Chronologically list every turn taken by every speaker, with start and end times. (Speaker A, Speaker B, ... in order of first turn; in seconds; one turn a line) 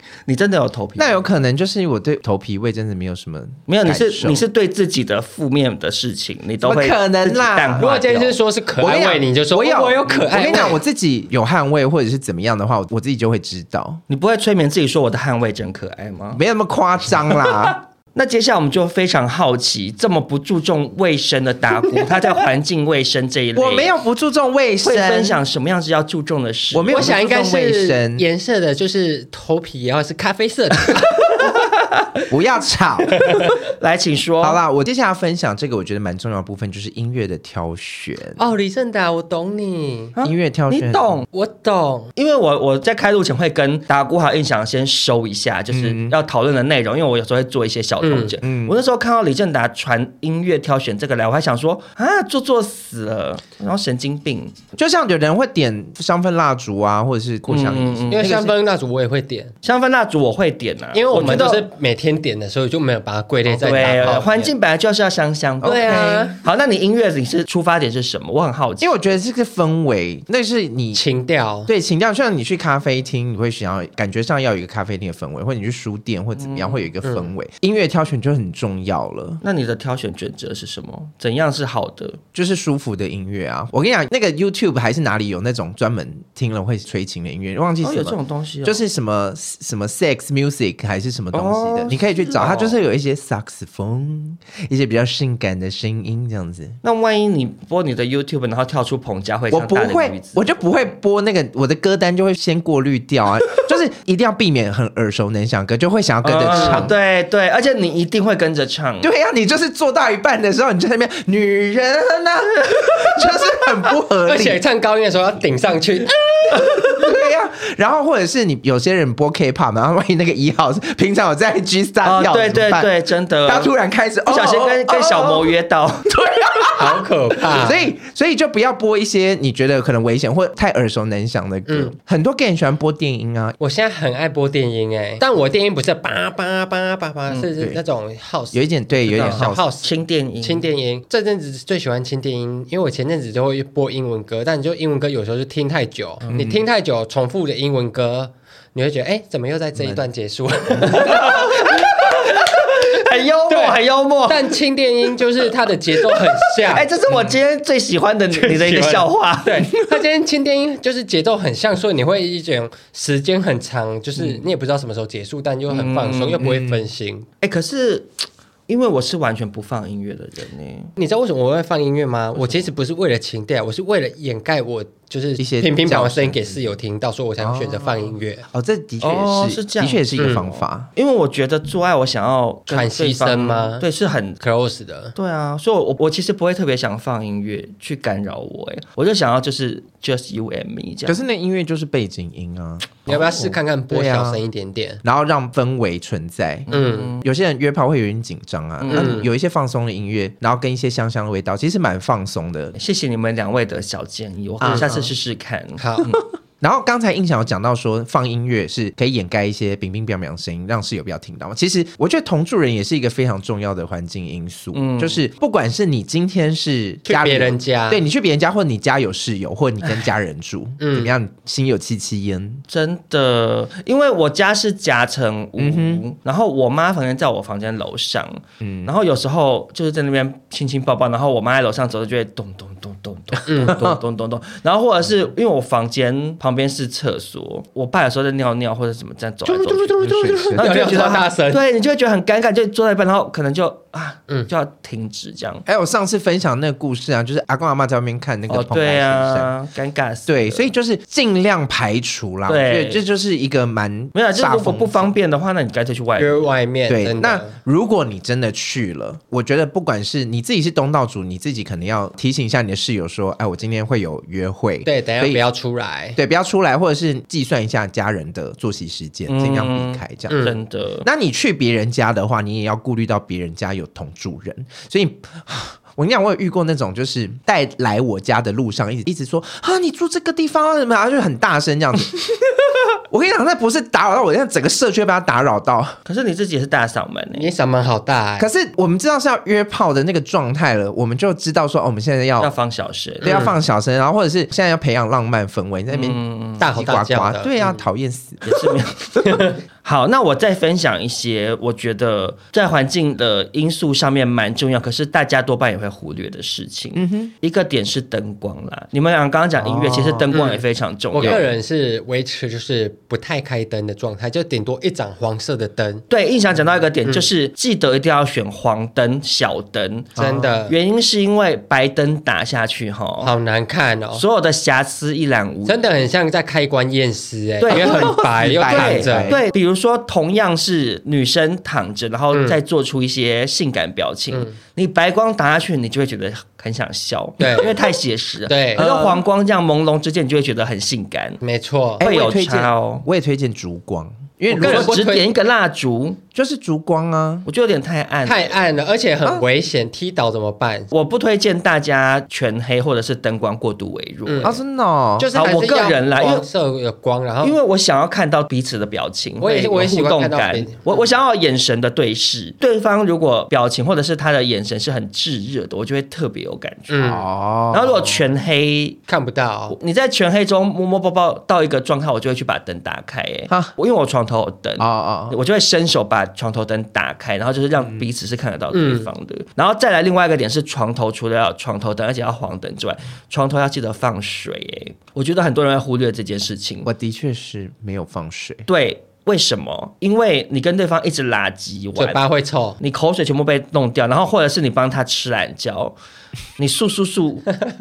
Speaker A: 0.2-1.2
Speaker B: 1.0-4.4
Speaker A: 3.7-8.3
Speaker B: 6.6-7.9
Speaker C: 7.8-10.8
Speaker B: 8.8-14.0
Speaker A: 14.1-16.4
Speaker B: 16.3-17.8
Speaker A: 17.3-23.9
Speaker C: 21.9-22.3
Speaker B: 23.5-25.4
Speaker A: 24.8-27.2
Speaker B: 26.7-28.2
Speaker C: 26.9-31.5
Speaker A: 31.4-32.2
Speaker B: 32.3-33.2
Speaker C: 33.2-33.5
Speaker A: 33.6-34.6
Speaker B: 34.4-38.4
Speaker C: 38.4-40.1
Speaker A: 40.1-41.2
Speaker B: 40.2-41.2
Speaker C: 41.3-42.1
Speaker A: 42.1-54.5
Speaker B: 45.7-46.1
Speaker C: 48.0-48.4
Speaker B: 48.4-48.8
Speaker B: 54.8-58.5
Speaker A: 57.5-58.3
Speaker C: 58.1-59.5
Speaker A: 59.6-61.7
Speaker C: 60.9-64.5
Speaker A: 63.5-69.0
Speaker B: 65.6-66.3
Speaker C: 65.6-66.4
Speaker B: 68.8-71.0
Speaker C: 70.9-71.7
Speaker B: 71.7-79.4
Speaker A: 76.4-76.9
Speaker A: 79.4-82.2
Speaker B: 82.3-96.8
Speaker A: 87.8-88.8
Speaker A: 91.3-92.8
Speaker A: 96.8-100.6
Speaker B: 99.5-106.9
Speaker A: 106.2-109.1
Speaker C: 106.5-106.8
Speaker B: 109.0-114.6
Speaker C: 114.2-116.8
Speaker B: 116.5-122.9
Speaker A: 122.0-123.7
Speaker B: 123.4-125.5
Speaker A: 124.3-126.1
Speaker B: 126.0-133.6
Speaker C: 126.8-127.9
Speaker C: 131.7-131.9
Speaker C: 133.6-152.4
Speaker B: 138.5-139.6
Speaker A: 139.1-140.7
Speaker A: 146.2-146.5
Speaker B: 146.3-146.6
Speaker B: 149.8-150.0
Speaker A: 150.9-154.6
Speaker C: 153.5-157.3
Speaker A: 156.0-159.6
Speaker C: 158.3-167.3
Speaker A: 165.7-166.5
Speaker B: 166.4-166.9
Speaker A: 167.4-168.1
Speaker A: 168.7-170.9
Speaker C: 171.0-178.4
Speaker B: 175.4-176.7
Speaker B: 177.4-180.9
Speaker A: 179.0-184.4
Speaker C: 180.2-180.5
Speaker C: 182.7-183.8
Speaker C: 184.4-185.1
Speaker A: 185.2-191.2
Speaker B: 191.1-194.4
Speaker C: 193.1-195.0
Speaker B: 195.0-202.8
Speaker A: 196.7-197.2
Speaker C: 196.7-197.1
Speaker A: 198.8-199.2
Speaker C: 198.9-199.3
Speaker A: 202.8-206.2
Speaker B: 204.6-205.1
Speaker C: 204.6-204.9
Speaker C: 205.8-206.1
Speaker B: 206.6-222.6
Speaker A: 214.7-215.2
Speaker C: 217.1-218.0
Speaker C: 220.8-221.1
Speaker A: 222.7-245.6
Speaker B: 225.6-226.0
Speaker B: 228.6-228.9
Speaker C: 233.5-233.8
Speaker B: 233.6-234.0
Speaker C: 239.4-241.6
Speaker B: 240.0-241.1
Speaker B: 245.7-249.5
Speaker A: 248.5-250.7
Speaker B: 250.3-255.1
Speaker A: 252.5-253.0
Speaker A: 254.1-256.5
Speaker C: 256.2-257.5
Speaker B: 256.9-265.4
Speaker C: 264.8-266.2
Speaker B: 266.1-270.4
Speaker A: 269.3-271.1
Speaker C: 270.3-270.6
Speaker B: 271.0-286.0
Speaker A: 286.1-287.5
Speaker C: 287.3-288.5
Speaker B: 288.4-292.5
Speaker A: 292.4-293.4
Speaker B: 293.2-298.6
Speaker C: 293.2-293.5
Speaker A: 295.9-296.7
Speaker C: 296.6-297.8
Speaker A: 298.4-311.5
Speaker C: 299.2-299.5
Speaker B: 306.9-307.3
Speaker B: 309.6-310.4
Speaker C: 310.3-316.0
Speaker A: 316.1-320.1
Speaker B: 320.1-320.6
Speaker C: 320.1-320.8
Speaker A: 320.7-323.3
Speaker C: 323.2-324.2
Speaker A: 324.1-325.9
Speaker C: 325.6-329.4
Speaker A: 327.6-341.4
Speaker B: 327.7-329.4
Speaker C: 332.3-332.6
Speaker C: 337.4-337.8
Speaker C: 338.5-339.2
Speaker C: 341.4-342.0
Speaker A: 342.0-343.1
Speaker B: 342.0-345.0
Speaker C: 344.5-345.3
Speaker A: 344.5-346.2
Speaker B: 346.3-347.5
Speaker A: 347.5-348.5
Speaker C: 348.2-350.9
Speaker A: 350.9-354.6
Speaker C: 354.2-354.6
Speaker B: 354.4-355.3
Speaker C: 355.2-357.6
Speaker A: 355.3-356.4
Speaker A: 357.4-367.2
Speaker C: 359.4-361.0
Speaker C: 366.9-367.2
Speaker B: 367.0-368.2
Speaker A: 367.7-369.0
Speaker C: 369.1-369.7
Speaker A: 369.7-386.9
Speaker B: 374.8-375.4
Speaker B: 377.8-378.0
Speaker C: 378.7-379.1
Speaker B: 386.8-388.6
Speaker A: 388.7-392.2
Speaker C: 392.0-392.8
Speaker A: 392.8-395.9
Speaker A: 396.6-397.5